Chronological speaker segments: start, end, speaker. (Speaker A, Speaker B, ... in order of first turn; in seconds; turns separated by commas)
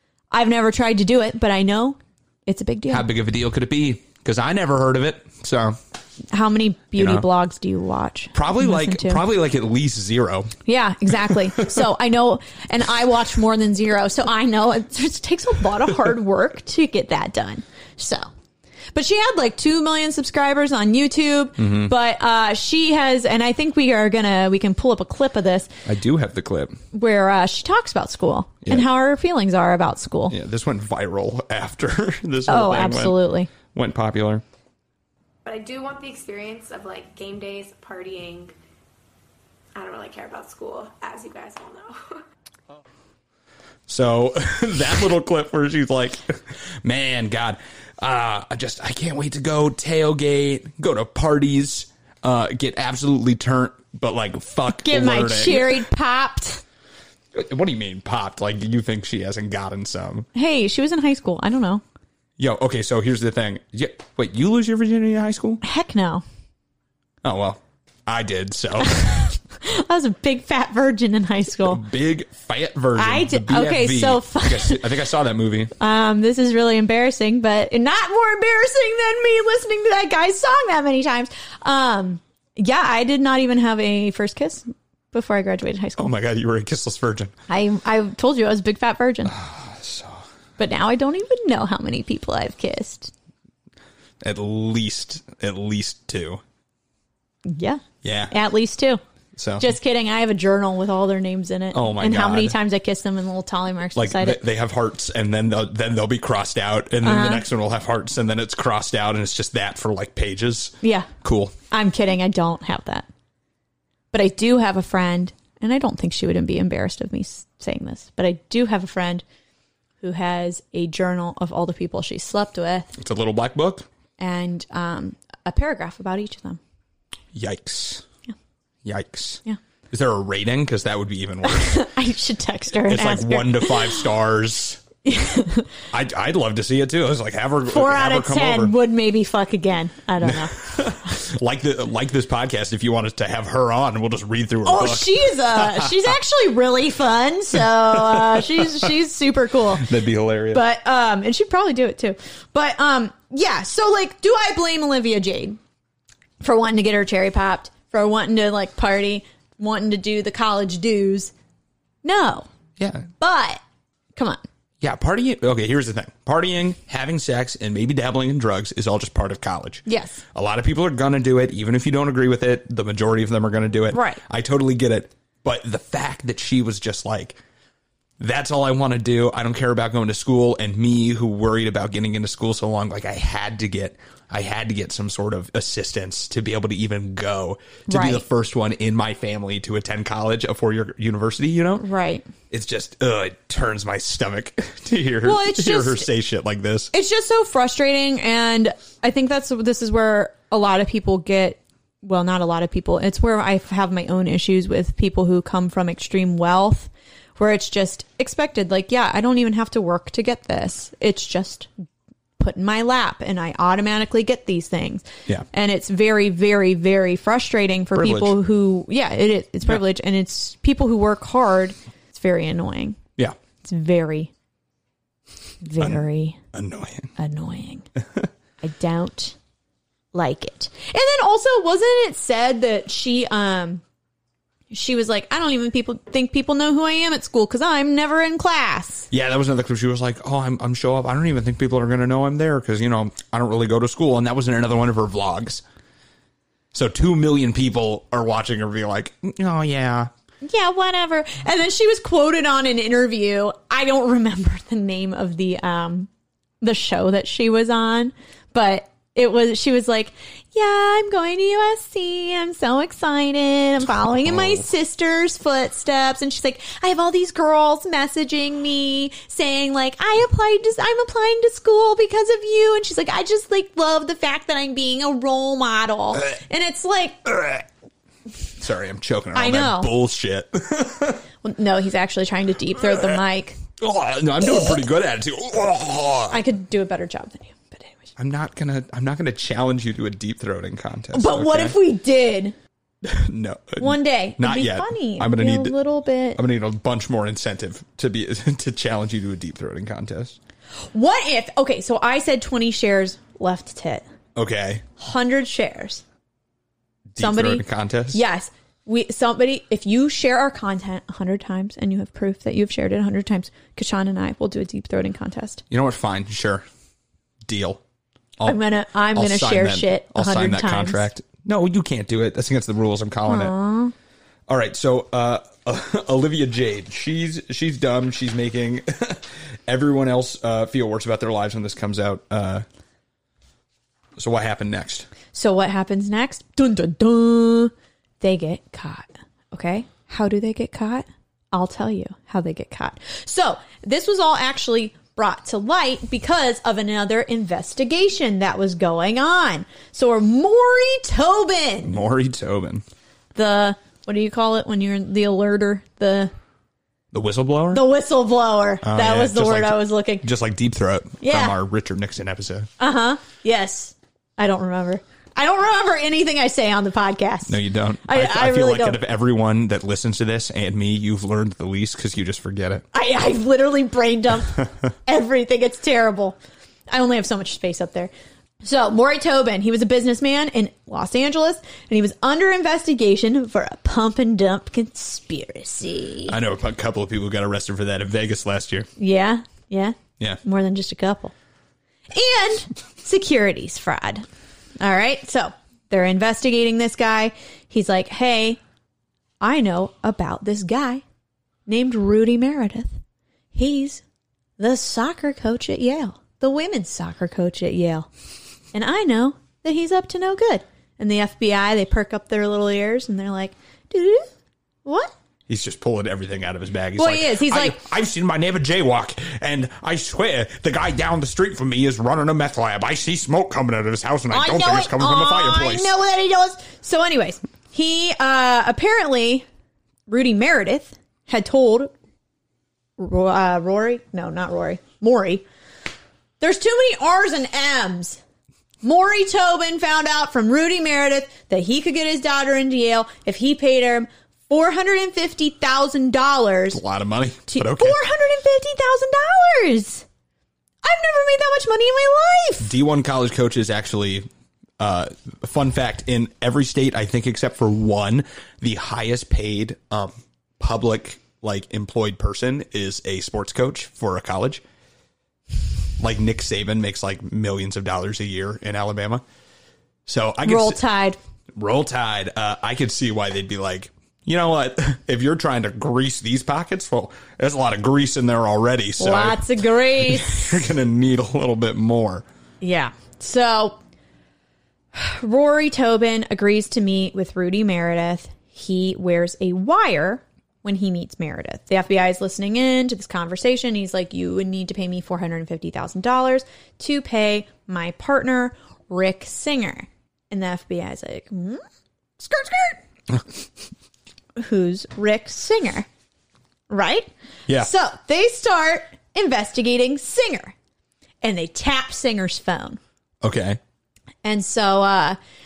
Speaker A: 0.3-3.1, Speaker B: 2.9-5.8, Speaker A: 6.3-9.2, Speaker B: 7.0-7.3, Speaker B: 8.3-10.6, Speaker A: 10.7-18.3, Speaker A: 18.9-25.7, Speaker B: 21.6-21.9, Speaker B: 25.9-26.8, Speaker A: 26.9-30.4, Speaker B: 30.3-34.4, Speaker A: 32.5-33.5, Speaker C: 35.5-38.5, Speaker C: 39.8-42.2, Speaker B: 43.9-55.8, Speaker A: 54.7-56.6, Speaker B: 57.3-60.3, Speaker A: 60.3-61.8, Speaker B: 62.4-65.6, Speaker A: 65.6-66.2, Speaker B: 67.2-69.3, Speaker A: 68.8-71.8, Speaker B: 71.6-75.7, Speaker A: 73.0-74.8, Speaker A: 75.8-86.1, Speaker B: 86.0-87.3, Speaker A: 87.5-89.3, Speaker B: 89.2-90.2, Speaker A: 90.6-93.1, Speaker B: 94.2-96.4, Speaker A: 97.5-99.0, Speaker B: 98.0-98.3, Speaker B: 99.3-99.7, Speaker A: 99.6-104.4, Speaker B: 101.7-102.6, Speaker B: 104.0-111.5, Speaker A: 107.0-107.5, Speaker A: 110.8-111.1, Speaker A: 111.7-113.1, Speaker A: 114.1-119.2, Speaker A: 120.0-122.9, Speaker B: 123.0-123.8, Speaker A: 124.2-126.6, Speaker B: 127.3-128.0, Speaker B: 128.8-131.8, Speaker A: 131.4-134.0, Speaker B: 132.8-134.8, Speaker A: 135.0-135.7, Speaker B: 135.9-138.7, Speaker A: 137.7-140.7, Speaker B: 140.2-146.0, Speaker A: 144.6-149.9, Speaker B: 147.9-148.9, Speaker B: 149.8-150.6, Speaker A: 150.5-155.6, Speaker A: 156.4-161.3, Speaker A: 162.0-162.5, Speaker B: 162.8-163.1, Speaker A: 163.2-163.6, Speaker A: 164.2-164.4, Speaker B: 164.8-177.4, Speaker A: 169.9-170.2, Speaker A: 173.9-174.2, Speaker B: 178.2-191.8, Speaker A: 187.9-188.2, Speaker A: 191.8-192.3, Speaker B: 192.5-196.9, Speaker A: 195.2-196.1, Speaker A: 196.9-211.7, Speaker A: 212.4-223.0, Speaker B: 217.9-218.4, Speaker A: 223.6-224.3, Speaker A: 225.6-226.4, Speaker B: 225.8-227.1, Speaker A: 227.2-227.9, Speaker A: 228.6-229.4, Speaker A: 230.1-233.8, Speaker A: 234.7-239.1, Speaker B: 239.1-245.6, Speaker B: 246.7-250.1, Speaker A: 250.4-256.1, Speaker A: 256.6-277.6, Speaker B: 264.2-264.6, Speaker B: 278.6-281.2, Speaker A: 279.3-279.9, Speaker A: 281.4-283.6, Speaker B: 282.8-283.2, Speaker B: 283.8-286.4, Speaker A: 284.4-284.7, Speaker A: 286.3-288.1, Speaker B: 288.2-291.8, Speaker A: 291.1-292.6, Speaker B: 293.0-295.7, Speaker A: 293.8-296.4, Speaker B: 296.4-300.4, Speaker A: 300.9-304.1, Speaker B: 304.4-304.9, Speaker A: 305.0-306.0, Speaker B: 307.1-308.2, Speaker A: 307.2-315.6, Speaker B: 315.7-316.6, Speaker B: 317.4-317.8, Speaker A: 318.4-321.1, Speaker B: 319.1-323.5, Speaker A: 323.3-323.9, Speaker B: 324.5-332.6, Speaker B: 334.2-335.1, Speaker A: 335.3-352.0, Speaker B: 351.9-352.8, Speaker A: 353.4-356.3, Speaker B: 357.1-357.8, Speaker A: 357.7-360.2, Speaker B: 358.8-362.7, Speaker A: 361.2-361.6, Speaker A: 362.8-369.0, Speaker B: 367.5-372.9, Speaker A: 372.9-376.4, Speaker A: 376.9-378.1, Speaker A: 378.6-386.4, Speaker B: 386.3-388.9, Speaker A: 389.0-391.3, Speaker A: 392.1-394.3, Speaker A: 394.8-398.6, Speaker A: 399.4-401.0, Speaker A: 401.7-403.0, Speaker A: 403.5-404.0, Speaker A: 404.6-408.1, Speaker A: 408.7-414.3, Speaker A: 414.9-415.1, Speaker B: 415.5-425.9, Speaker A: 417.0-417.8, Speaker A: 424.3-429.4, Speaker A: 430.1-431.9, Speaker A: 433.0-435.4, Speaker A: 436.4-438.2, Speaker A: 438.8-446.8, Speaker B: 446.7-448.0, Speaker A: 447.5-450.1, Speaker A: 450.8-452.7, Speaker B: 452.6-454.3, Speaker B: 454.8-464.6, Speaker B: 466.0-469.2, Speaker B: 470.1-470.8, Speaker A: 470.4-471.2, Speaker B: 471.6-482.2, Speaker A: 479.0-480.7, Speaker A: 482.6-483.8, Speaker A: 484.9-501.6, Speaker A: 502.2-502.8, Speaker B: 503.1-503.4, Speaker A: 504.4-505.9, Speaker A: 506.7-510.5, Speaker A: 511.2-512.8, Speaker B: 513.2-513.6, Speaker A: 514.2-515.2